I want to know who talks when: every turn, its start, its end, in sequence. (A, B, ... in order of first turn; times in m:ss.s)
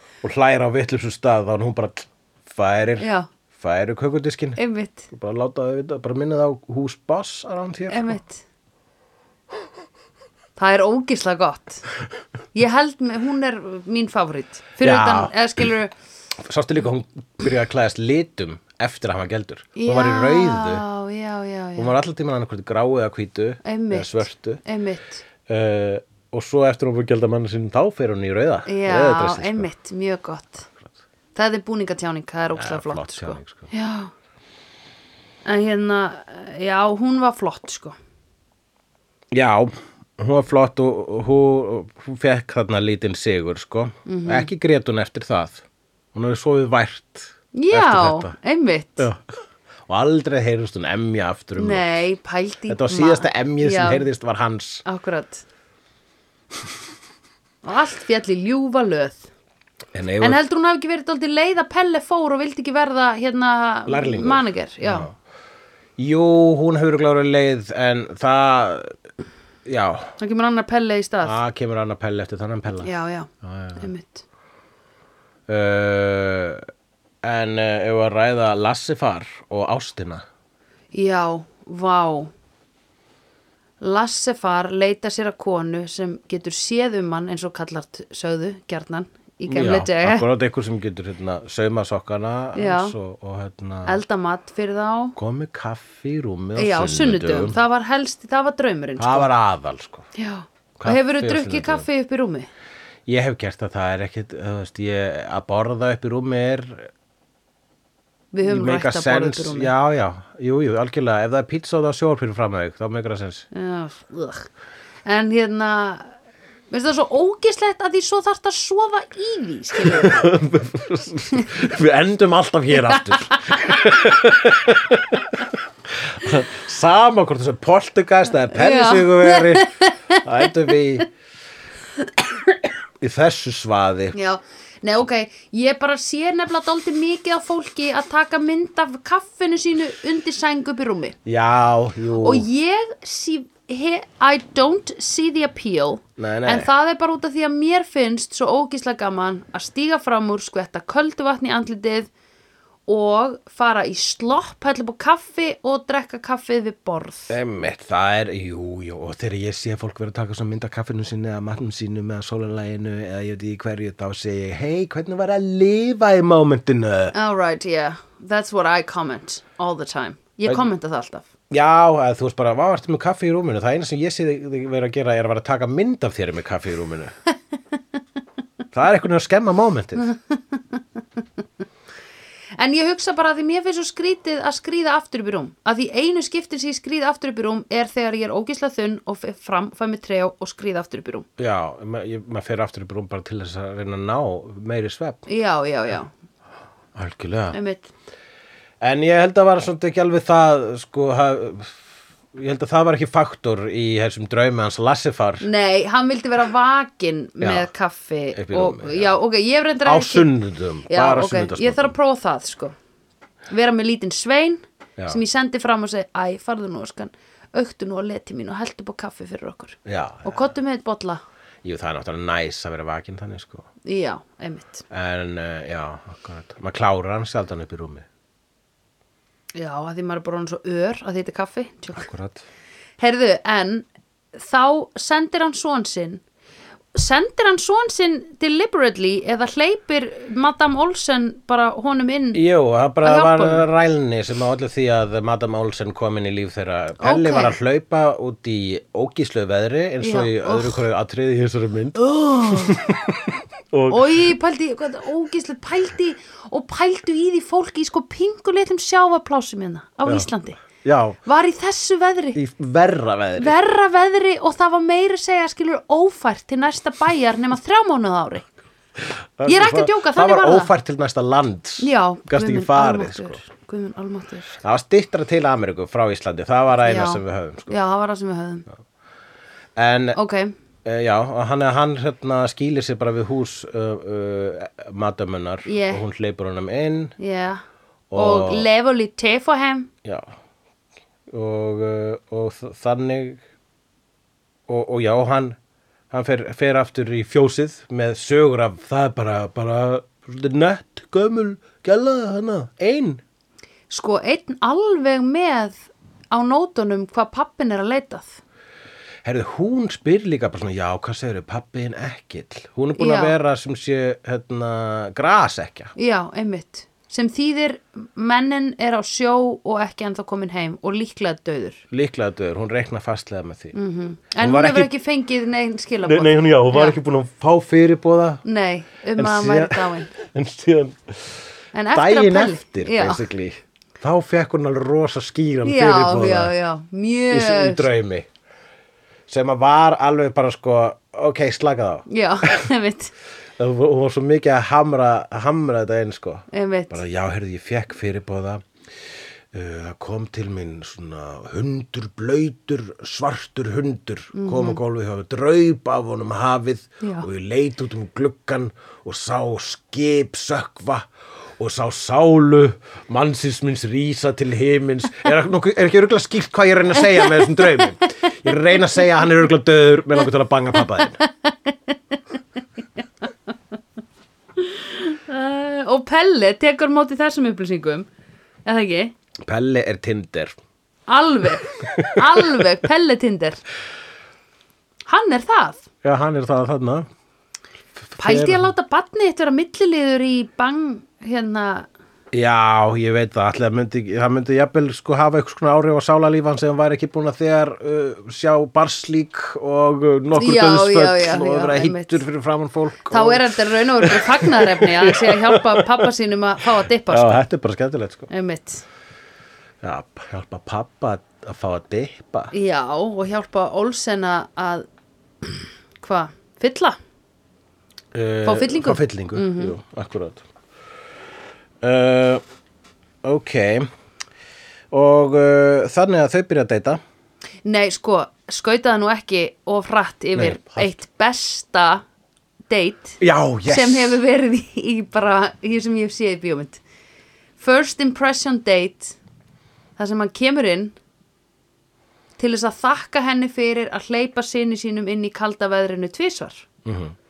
0:00.2-0:04.6 A
0:03.0-0:03.3 B
0:04.6-0:05.1 B
0:05.1-0:08.2 A
0:07.9-0:08.4 B
0:10.6-0:11.8 B
0:12.5-0:15.9 B
0:14.8-0:15.3 A
0:16.4-0:20.8 A
0:19.8-0:21.9 B
0:21.8-0:24.6 A
0:23.6-0:25.2 B
0:25.5-0:29.7 A
0:28.6-0:30.7 B
0:31.3-0:34.1 B
0:32.5-0:33.7 A
0:35.4-0:38.0 B
0:39.3-0:48.3 A
0:44.0-0:44.5 B
0:47.5-0:49.1 B
0:49.9-0:52.0 A
0:51.6-0:54.1 B
0:52.7-0:54.8 A
0:54.8-0:55.4 B
0:57.6-0:59.3 B
0:59.9-1:00.4 A
1:00.2-1:05.1 B
1:03.9-1:05.1 A
1:06.0-1:08.9 A
1:09.6-1:10.1 A
1:10.2-1:11.4 B
1:11.2-1:13.9 A
1:12.8-1:14.2 B
1:15.5-1:16.6 A
1:17.2-1:20.2 A
1:20.9-1:22.3 B
1:23.8-1:30.3 B
1:29.5-1:34.0 A
1:32.5-1:32.9 B
1:33.8-1:35.2 B
1:35.2-1:37.6 A
1:36.6-1:39.3 B
1:39.0-1:40.0 A
1:40.1-1:42.5 B
1:40.8-1:41.8 A
1:43.1-1:46.9 A
1:48.3-1:49.7 B
1:48.4-1:53.5 A
1:53.5-1:54.5 B
1:55.0-1:56.1 B
1:56.7-2:00.2 B
1:59.8-2:11.1 A
2:02.9-2:03.6 B
2:08.5-2:10.5 B
2:13.0-2:14.2 A
2:14.1-2:21.2 B
2:21.2-2:22.5 A
2:22.2-2:32.1 B
2:26.2-2:26.7 A
2:32.9-2:37.3 B
2:37.3-2:47.1 A
2:47.1-2:51.3 B
2:51.5-2:57.1 A
2:58.7-3:00.1 A
3:00.0-3:00.8 B
3:02.6-3:11.3 B
3:11.4-3:15.2 A
3:15.3-3:16.1 B
3:16.9-3:17.6 A
3:17.5-3:17.9 B
3:18.8-3:21.8 A
3:22.3-3:25.4 A
3:25.4-3:30.3 B
3:27.4-3:27.7 A
3:28.3-3:29.1 A
3:29.8-3:31.9 A
3:30.9-3:32.7 B
3:33.5-3:41.2 B
3:39.8-3:40.4 A
3:41.6-3:43.7 A
3:43.8-3:44.8 B
3:44.9-3:48.0 A
3:49.5-3:52.1 B
3:52.0-3:52.4 A
3:53.0-3:56.2 B
3:56.9-4:02.4 B
4:02.3-4:14.3 A
4:03.0-4:03.7 B
4:07.0-4:07.6 B
4:10.0-4:10.8 B
4:12.1-4:12.8 B
4:13.9-4:20.6 B
4:20.8-4:21.2 A
4:21.2-4:22.4 B
4:22.4-4:23.6 A
4:23.4-4:28.5 B
4:29.1-4:33.4 A
4:29.4-4:30.7 B
4:31.8-4:34.6 B
4:34.6-4:37.7 A
4:36.8-4:38.6 B
4:39.8-4:40.2 A
4:40.1-4:40.5 B
4:40.8-4:47.2 A
4:45.6-4:46.0 B
4:47.2-4:47.6 B
4:48.1-4:48.7 A
4:48.1-4:49.9 B
4:51.3-4:53.4 A
4:54.7-4:55.6 A
4:56.1-5:03.2 A
5:03.9-5:08.4 B
5:09.2-5:15.9 A
5:13.0-5:13.4 B
5:16.0-5:21.8 B
5:21.9-5:23.7 A
5:23.7-5:27.0 B
5:24.4-5:24.9 A
5:26.0-5:28.4 A
5:28.4-5:30.1 B
5:29.2-5:31.4 A
5:31.7-5:33.2 B
5:31.9-5:36.5 A
5:35.6-5:37.9 B
5:37.3-5:38.3 A
5:39.3-5:42.6 A
5:42.1-5:43.1 B
5:43.6-5:48.6 A
5:46.5-5:47.0 B
5:49.5-6:11.2 A
5:54.3-5:54.8 B
5:57.0-5:57.3 B
6:07.1-6:07.8 B
6:11.2-6:12.2 B
6:14.6-6:18.1 B
6:18.6-6:19.1 B
6:19.4-6:20.6 A
6:21.1-6:23.6 B
6:21.8-6:22.6 A
6:25.1-6:25.9 B
6:26.0-6:27.0 A
6:28.1-6:28.7 A
6:28.2-6:31.9 B
6:32.3-6:46.1 A
6:40.3-6:42.2 B
6:43.1-6:47.4 B
6:47.1-6:48.3 A
6:48.3-6:48.8 B
6:49.8-6:52.5 A
6:52.5-6:54.8 B
6:55.4-6:57.0 B
6:58.1-7:00.4 A
6:58.4-6:59.7 B
7:01.8-7:02.4 A
7:03.2-7:03.9 A
7:04.9-7:07.0 A
7:07.6-7:12.0 B
7:10.3-7:11.0 A
7:12.7-7:16.8 B
7:13.2-7:14.2 A
7:17.6-7:19.2 B
7:20.0-7:21.0 B
7:22.4-7:26.6 B
7:26.8-7:27.1 A